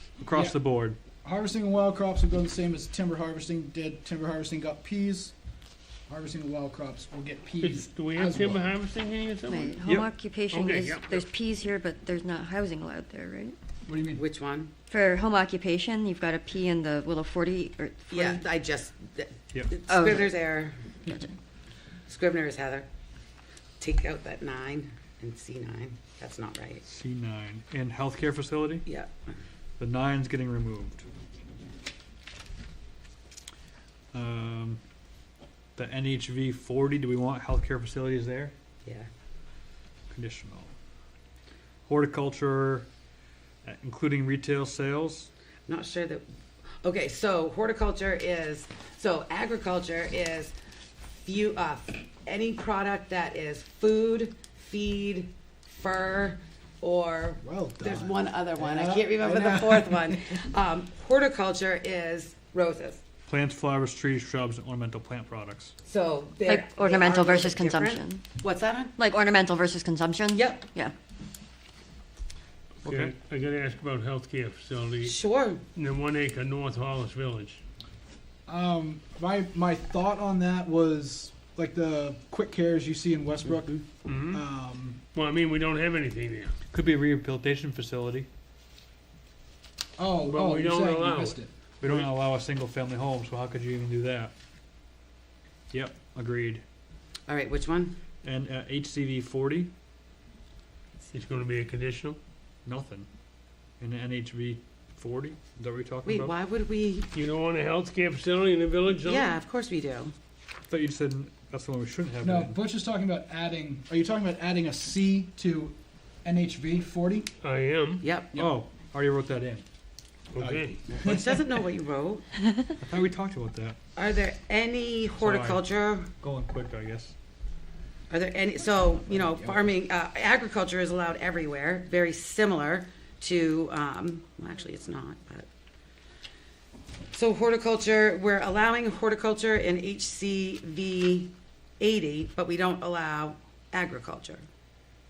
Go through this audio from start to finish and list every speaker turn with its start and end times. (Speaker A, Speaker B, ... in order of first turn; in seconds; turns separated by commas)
Speaker A: 0.2-1.0, Speaker B: 0.3-0.6, Speaker B: 1.2-5.3, Speaker B: 6.1-8.7, Speaker C: 7.6-9.8, Speaker D: 9.4-13.6, Speaker C: 10.5-11.2, Speaker B: 13.8-14.2, Speaker E: 14.2-14.7, Speaker D: 14.9-18.4, Speaker E: 18.1-20.8, Speaker D: 19.9-20.4, Speaker D: 21.1-21.3, Speaker E: 22.1-22.9, Speaker E: 23.8-26.8, Speaker A: 26.8-28.9, Speaker E: 28.9-29.3, Speaker A: 29.8-31.1, Speaker A: 34.1-34.8, Speaker A: 35.8-38.5, Speaker E: 38.8-39.1, Speaker A: 40.1-40.7, Speaker A: 41.9-42.9, Speaker A: 43.6-45.3, Speaker E: 45.7-46.2, Speaker E: 46.8-50.5, Speaker E: 51.2-63.0, Speaker B: 57.4-60.3, Speaker A: 63.3-65.7, Speaker E: 65.8-68.9, Speaker D: 66.4-68.3, Speaker D: 69.0-70.9, Speaker E: 70.3-70.7, Speaker C: 72.8-75.2, Speaker A: 72.8-73.1, Speaker E: 75.0-75.6, Speaker C: 75.8-77.6, Speaker B: 78.5-85.0, Speaker C: 83.9-84.4, Speaker C: 85.1-86.5, Speaker A: 86.7-88.3, Speaker B: 90.0-91.5, Speaker C: 90.2-92.1, Speaker A: 91.8-94.3, Speaker A: 95.7-96.6, Speaker E: 97.3-98.0, Speaker A: 98.2-99.7, Speaker C: 101.1-102.2, Speaker A: 102.6-103.1, Speaker A: 103.8-106.3, Speaker E: 106.0-107.1, Speaker C: 107.1-109.3, Speaker E: 109.0-110.1, Speaker A: 110.7-112.6, Speaker B: 112.2-117.3, Speaker C: 117.4-118.0, Speaker E: 118.0-118.3, Speaker A: 118.3-119.6, Speaker C: 120.3-120.8, Speaker B: 120.3-121.4, Speaker E: 120.9-122.2, Speaker A: 122.8-123.8, Speaker E: 124.0-126.1, Speaker A: 125.2-127.1, Speaker E: 128.1-135.5, Speaker B: 128.9-129.7, Speaker E: 137.1-144.4